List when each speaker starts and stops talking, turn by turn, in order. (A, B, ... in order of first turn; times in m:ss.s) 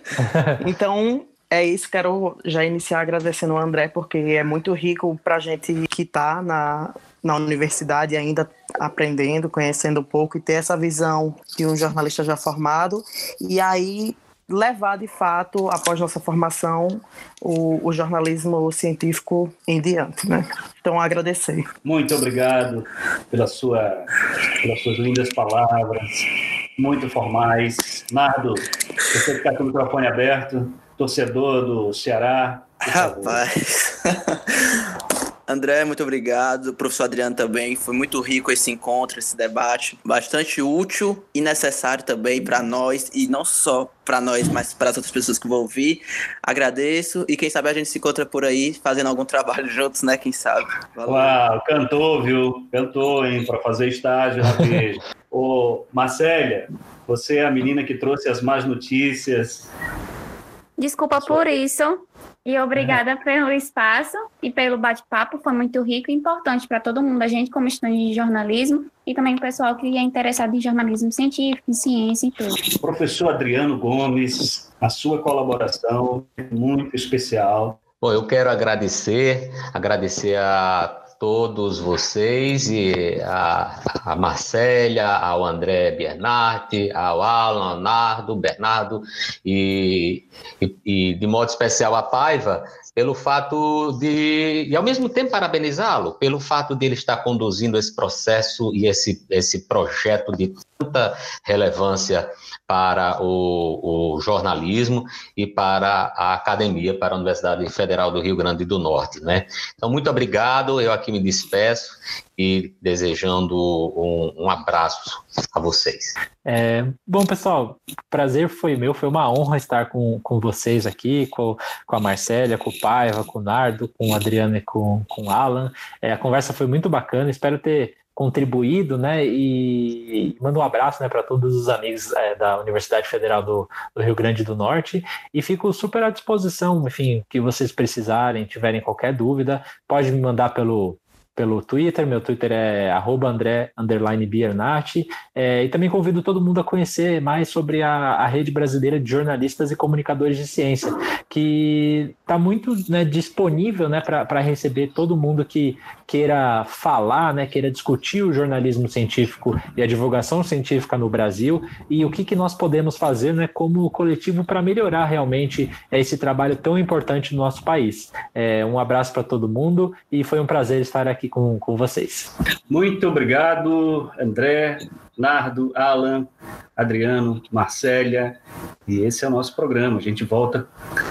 0:00.2-0:00.6 A
0:00.6-0:21.7 B
0:21.8-0:24.0 C
0:24.6-0:26.2 C
0:26.8-0:33.4 C
0:32.9-0:34.5 D
0:35.5-0:51.4 D
0:51.0-0:59.7 C
1:00.8-1:12.6 E
1:12.7-1:17.8 C
1:18.0-1:56.1 F
1:56.4-2:52.3 A
2:52.7-3:00.7 C